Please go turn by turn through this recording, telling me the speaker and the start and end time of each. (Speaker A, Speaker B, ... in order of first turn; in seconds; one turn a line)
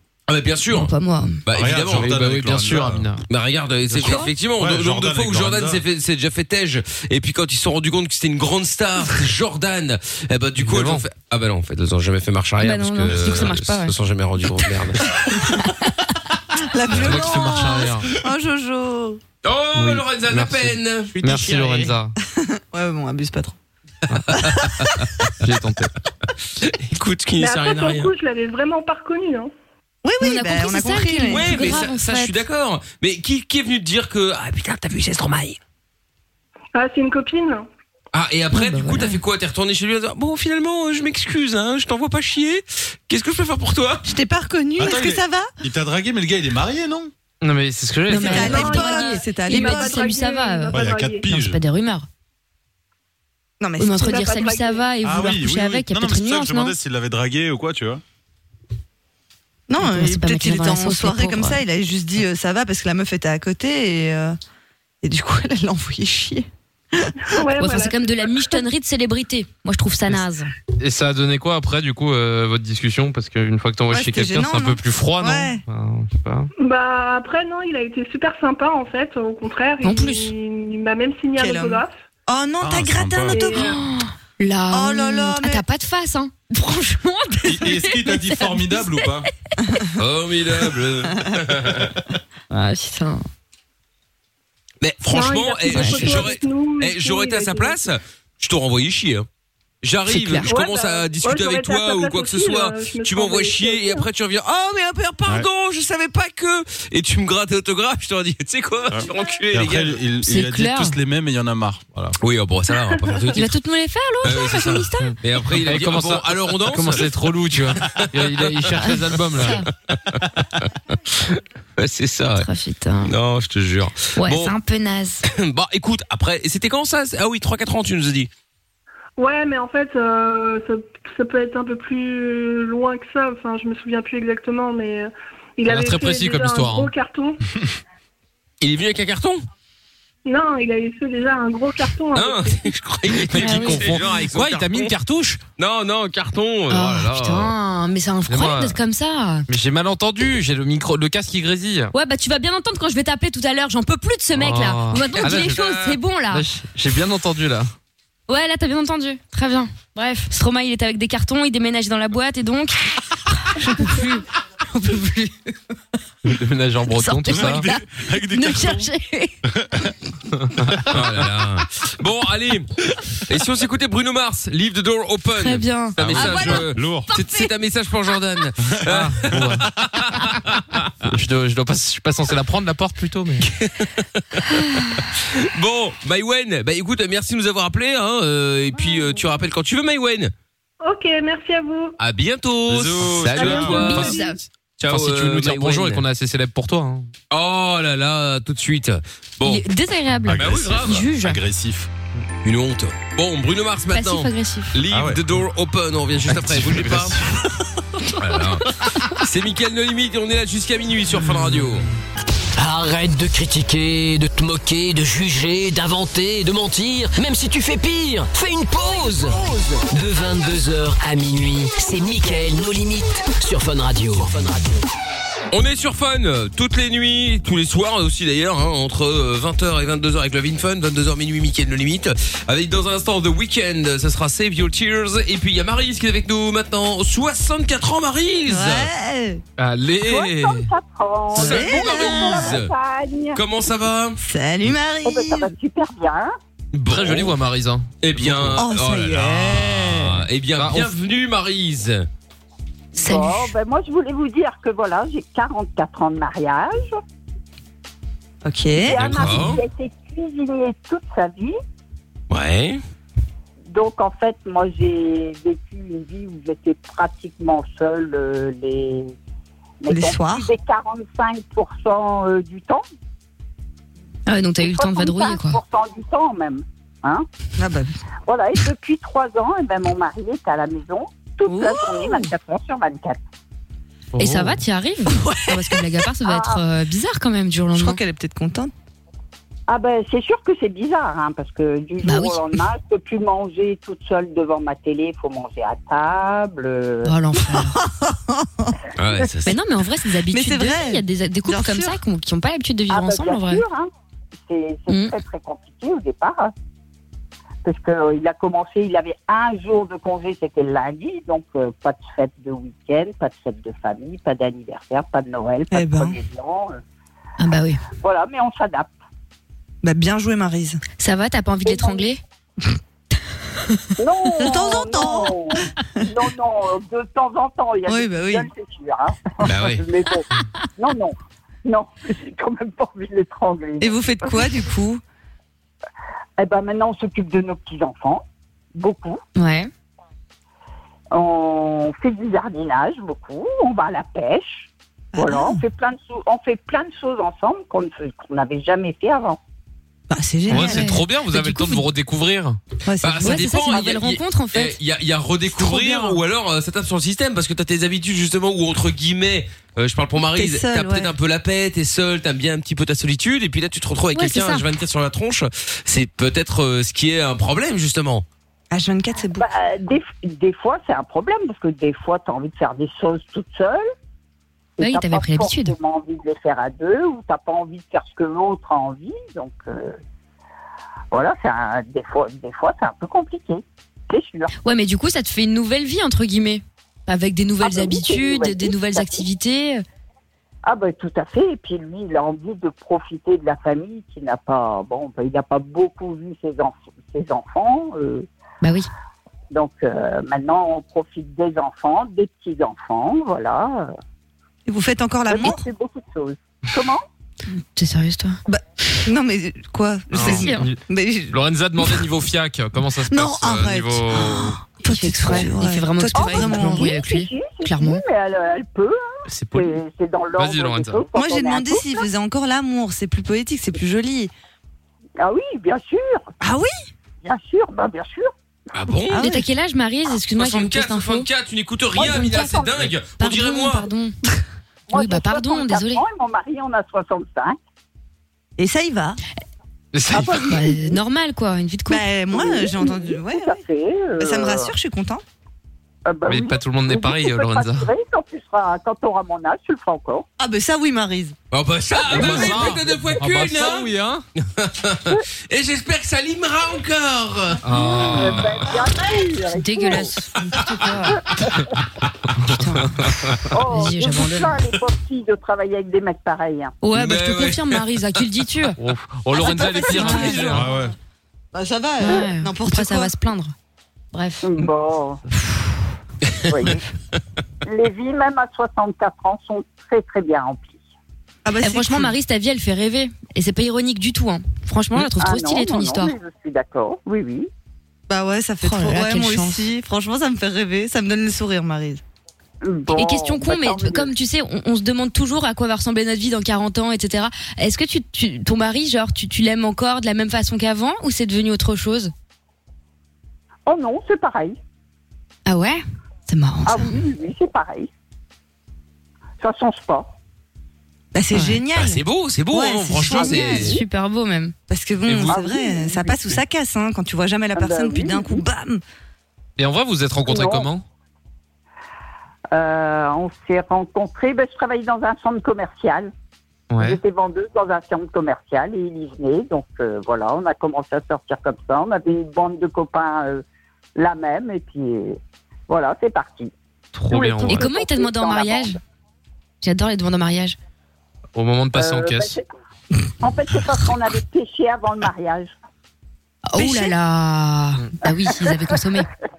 Speaker A: 0.3-0.9
Speaker B: 0.7-1.4
Speaker A: 1.4-2.4
Speaker C: 1.5-3.1
Speaker D: 1.9-3.2
Speaker A: 3.3-15.0
Speaker D: 3.9-4.2
Speaker C: 4.1-5.8
Speaker D: 10.6-11.0
Speaker B: 12.6-13.9
Speaker E: 16.6-19.2
Speaker D: 16.9-18.1
Speaker A: 19.4-21.2
Speaker D: 19.8-22.1
Speaker C: 21.3-21.8
Speaker E: 21.3-23.6
Speaker A: 24.3-24.9
Speaker D: 25.4-25.9
Speaker A: 26.6-28.1
Speaker F: 27.4-29.5
Speaker E: 30.0-31.8
Speaker B: 30.2-32.3
Speaker A: 31.3-35.6
Speaker F: 36.7-37.7
Speaker A: 38.1-44.0
Speaker B: 38.5-39.2
Speaker E: 44.0-45.5
Speaker C: 44.8-47.1
Speaker D: 47.4-48.4
Speaker B: 48.1-52.1
Speaker E: 48.1-50.0
Speaker F: 48.1-51.3
Speaker C: 50.7-51.6
Speaker E: 53.6-54.1
Speaker B: 53.8-56.7
Speaker F: 54.0-54.9
Speaker C: 55.0-58.0
Speaker E: 59.7-64.3
Speaker B: 59.8-61.6
Speaker E: 65.0-67.3
Speaker F: 67.3-68.6
Speaker B: 67.6-70.5
Speaker D: 70.8-76.5
Speaker E: 73.9-75.6
Speaker F: 76.6-81.9
Speaker B: 79.8-80.3
Speaker E: 81.3-83.8
Speaker C: 82.6-83.4
Speaker F: 83.3-83.8
Speaker B: 83.6-89.0
Speaker E: 84.7-85.6
Speaker C: 87.4-89.3
Speaker E: 89.6-89.9
Speaker A: 90.0-91.9
Speaker C: 91.7-92.0
Speaker B: 92.5-93.2
Speaker A: 94.8-99.2
Speaker F: 95.1-97.8
Speaker B: 95.7-96.2
Speaker A: 99.8-110.0
Speaker B: 100.1-100.5
Speaker F: 100.5-104.1
Speaker C: 109.5-112.2
Speaker B: 110.2-111.0
Speaker A: 112.2-113.5
Speaker F: 112.8-113.2
Speaker B: 113.3-115.1
Speaker A: 114.2-117.1
Speaker D: 115.0-119.6
Speaker A: 117.8-118.8
Speaker B: 118.8-119.7
Speaker A: 119.4-122.5
Speaker B: 122.3-123.1
Speaker A: 123.1-124.5
Speaker B: 124.2-125.2
Speaker A: 125.3-128.3
Speaker F: 129.2-137.4
Speaker D: 135.7-136.9
Speaker A: 138.6-139.4
Speaker F: 140.2-142.7
Speaker A: 142.1-144.9
Speaker B: 143.4-143.9
Speaker D: 143.4-145.4
Speaker A: 145.6-147.5
Speaker B: 146.7-149.4
Speaker D: 148.3-148.8
Speaker D: 149.5-151.9
Speaker B: 151.9-156.5
Speaker D: 154.3-155.6
Speaker A: 155.2-156.0
Speaker D: 156.3-157.7
Speaker B: 158.3-165.5
Speaker D: 166.2-167.7
Speaker B: 166.9-169.3
Speaker C: 167.3-168.9
Speaker C: 169.5-169.9
Speaker D: 170.5-170.9
Speaker A: 170.9-172.7
Speaker A: 173.3-181.1
Speaker B: 175.3-176.4
Speaker C: 176.0-177.1
Speaker E: 176.1-177.5
Speaker D: 178.9-179.6
Speaker D: 181.0-183.5
Speaker A: 183.4-184.4
Speaker B: 184.5-185.1
Speaker A: 185.3-190.3
Speaker F: 190.8-191.9
Speaker A: 192.0-194.1
Speaker C: 192.7-194.1
Speaker B: 193.4-194.4
Speaker F: 193.4-194.4
Speaker D: 193.7-194.2
Speaker A: 194.8-196.0
Speaker D: 194.9-197.1
Speaker A: 197.3-199.6
Speaker B: 199.4-201.4
Speaker C: 200.3-201.9
Speaker A: 200.3-201.1
Speaker A: 202.4-207.2
Speaker B: 203.9-204.8
Speaker C: 204.9-205.2
Speaker D: 206.3-207.4
Speaker A: 208.2-211.8
Speaker D: 211.2-211.8
Speaker G: 212.6-224.8
Speaker A: 225.5-238.9
Speaker E: 238.5-239.4
Speaker D: 239.6-240.7
Speaker H: 240.0-243.4
Speaker E: 241.3-242.6
Speaker A: 241.3-242.7
Speaker A: 243.3-244.2
Speaker E: 244.2-245.5
Speaker H: 245.1-246.3
Speaker A: 246.7-247.4
Speaker D: 246.9-248.6
Speaker A: 248.0-252.1
Speaker E: 248.6-249.9
Speaker D: 250.6-250.9
Speaker H: 252.9-257.0
Speaker B: 252.9-253.5
Speaker E: 258.4-259.0
Speaker H: 258.8-261.5
Speaker D: 258.9-259.5
Speaker A: 259.0-259.6
Speaker A: 262.3-262.8
Speaker H: 263.7-269.1
Speaker H: 269.8-272.8
Speaker E: 269.9-270.5
Speaker B: 274.3-275.6
Speaker H: 274.6-277.2
Speaker E: 277.6-277.9
Speaker H: 278.3-283.2
Speaker E: 281.4-282.3
Speaker D: 284.1-284.6
Speaker B: 284.2-288.0
Speaker E: 285.1-285.8
Speaker H: 286.2-286.6
Speaker E: 287.7-288.7
Speaker H: 289.7-297.1
Speaker B: 292.0-292.5
Speaker B: 297.0-297.8
Speaker E: 297.5-298.8
Speaker A: 298.9-299.6
Speaker B: 299.4-303.6
Speaker E: 300.3-302.0
Speaker H: 302.9-303.9
Speaker H: 304.4-306.5
Speaker B: 304.9-305.1
Speaker H: 307.6-316.8
Speaker E: 315.7-316.2
Speaker B: 317.4-317.8
Speaker H: 318.0-318.9
Speaker E: 319.8-320.8
Speaker B: 321.0-322.2
Speaker H: 321.6-322.1
Speaker H: 324.0-330.2
Speaker E: 324.4-325.4
Speaker E: 327.9-328.5
Speaker A: 329.4-329.8
Speaker H: 330.8-334.3
Speaker E: 333.8-335.0
Speaker H: 336.4-338.2
Speaker H: 338.7-339.2
Speaker B: 339.4-339.7
Speaker H: 341.1-349.4
Speaker E: 345.1-345.6
Speaker E: 350.1-350.9
Speaker B: 350.5-351.8
Speaker D: 350.5-352.6
Speaker E: 352.9-353.5
Speaker A: 353.0-368.2
Speaker B: 353.2-354.8
Speaker B: 355.5-356.2
Speaker E: 360.3-361.1
Speaker B: 364.1-364.6
Speaker E: 368.7-369.5
Speaker H: 369.4-373.8
Speaker H: 374.8-380.0
Speaker B: 374.8-375.7
Speaker H: 381.1-384.5
Speaker B: 384.6-389.8
Speaker H: 387.6-389.2
Speaker H: 390.6-398.3
Speaker B: 398.6-398.9
Speaker H: 399.5-403.9
Speaker E: 404.6-405.6
Speaker H: 405.3-407.0
Speaker B: 407.8-408.4
Speaker E: 408.5-412.0
Speaker D: 410.1-410.8
Speaker B: 410.2-410.7
Speaker D: 411.3-414.5
Speaker E: 413.1-416.9
Speaker B: 414.8-418.0
Speaker H: 416.1-419.0
Speaker D: 419.3-419.8
Speaker H: 419.5-422.0
Speaker D: 420.4-421.0
Speaker E: 421.1-424.3
Speaker H: 425.2-426.3
Speaker E: 426.4-426.7
Speaker H: 427.2-428.3
Speaker A: 428.7-429.2
Speaker E: 429.1-429.4
Speaker B: 429.1-431.3
Speaker A: 430.3-433.9
Speaker H: 431.9-432.9
Speaker B: 432.0-432.6
Speaker B: 433.2-434.1
Speaker H: 434.9-437.6
Speaker B: 434.9-436.0
Speaker E: 438.6-439.2
Speaker D: 439.9-440.4
Speaker H: 440.1-441.0
Speaker B: 440.5-442.0
Speaker E: 441.9-443.6
Speaker H: 442.3-444.7
Speaker E: 444.2-445.2
Speaker H: 446.1-450.3
Speaker D: 446.3-447.9
Speaker E: 450.4-451.3
Speaker A: 451.5-457.6
Speaker D: 452.1-454.2
Speaker D: 457.6-458.8
Speaker H: 457.8-460.1
Speaker B: 459.5-461.2
Speaker H: 461.1-461.5
Speaker B: 462.5-462.9
Speaker H: 463.5-466.7
Speaker B: 463.7-464.6
Speaker B: 466.8-468.8
Speaker A: 466.9-467.8
Speaker D: 468.8-470.7
Speaker E: 469.4-470.6
Speaker B: 469.7-470.6
Speaker C: 470.5-470.9
Speaker E: 471.5-473.1
Speaker B: 472.0-473.5
Speaker B: 474.1-474.4
Speaker H: 474.4-475.2
Speaker H: 476.5-476.8
Speaker H: 477.6-480.8
Speaker E: 481.4-482.1
Speaker B: 481.6-486.1
Speaker H: 485.0-487.5
Speaker E: 488.1-492.0
Speaker B: 488.6-489.7
Speaker H: 492.6-494.1
Speaker B: 492.9-502.1
Speaker H: 503.6-504.6
Speaker B: 505.4-506.9
Speaker H: 506.6-507.9
Speaker H: 509.4-510.1
Speaker E: 511.1-513.8
Speaker B: 511.3-511.6
Speaker A: 511.7-513.8
Speaker B: 513.1-514.5
Speaker E: 514.7-518.8
Speaker D: 515.1-515.4
Speaker H: 515.3-516.2
Speaker H: 517.5-518.4
Speaker D: 519.6-520.8
Speaker H: 520.2-520.7
Speaker H: 522.5-526.1
Speaker D: 526.7-527.0
Speaker H: 526.8-533.4
Speaker H: 534.0-536.5
Speaker D: 536.9-537.7
Speaker H: 537.1-538.8
Speaker B: 537.4-538.8
Speaker B: 539.6-540.6
Speaker D: 541.3-542.4
Speaker H: 541.7-542.4
Speaker H: 543.2-545.5
Speaker B: 546.5-549.1
Speaker E: 546.6-546.9